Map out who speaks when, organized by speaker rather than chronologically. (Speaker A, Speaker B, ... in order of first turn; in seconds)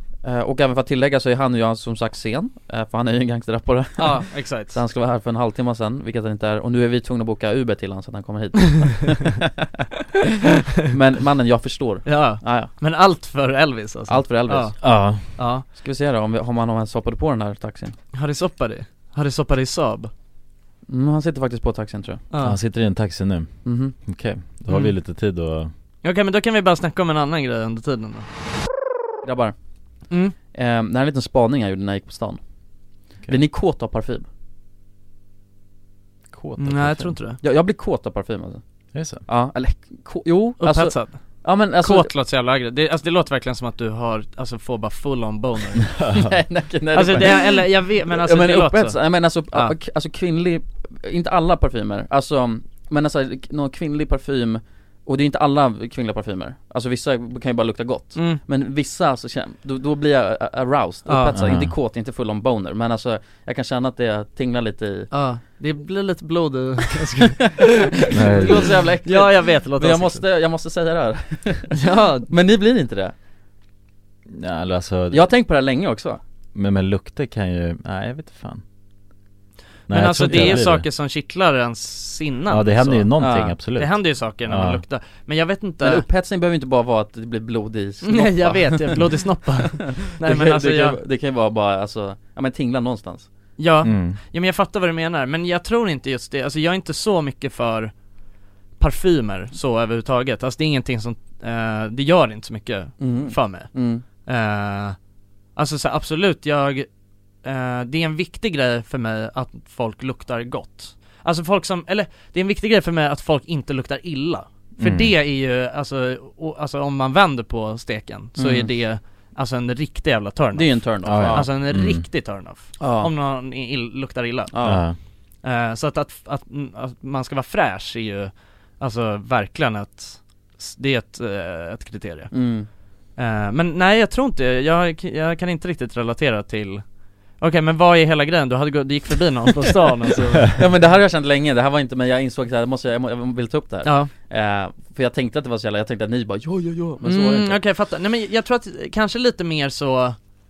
Speaker A: 0.2-9.4, 10.8-12.7, 14.1-14.8, 15.7-18.0, 20.9-22.2, 23.6-23.9, 29.2-29.5, 30.5-32.4, 33.3-34.3, 37.4-38.6, 39.2-42.1, 46.1-65.1, 67.6-71.7, 72.3-73.1, 75.1-76.2, 80.2-80.6, 83.2-83.5, 85.8-93.3, 103.0-104.0, 118.4-118.7, 120.5-121.5, 122.8-123.1, 124.5-124.8, 132.3-132.7, 140.5-147.6
Speaker B: 4.0-4.8, 12.1-15.7, 18.1-20.1, 22.3-22.6, 26.0-28.3, 30.1-30.4, 36.6-37.4, 40.6-45.9, 46.9-49.7, 58.1-58.4, 61.1-61.4, 65.1-67.6, 68.4-70.2, 71.7-72.3, 79.9-83.1, 83.7-86.0, 88.0-91.0, 93.6-97.9, 98.8-105.0, 105.6-106.9, 107.4-124.7, 125.4-132.4, 133.2-136.9, 137.4-140.6, 143.8-144.1, 147.0-150.2
Speaker C: 14.8-15.4, 22.4-25.7, 36.3-37.2, 38.9-39.2, 61.3-61.7, 68.1-68.7, 74.3-75.3, 76.5-78.6, 79.9-80.9, 82.5-84.8, 93.8-94.2, 114.8-115.1, 121.0-122.1, 124.6-125.0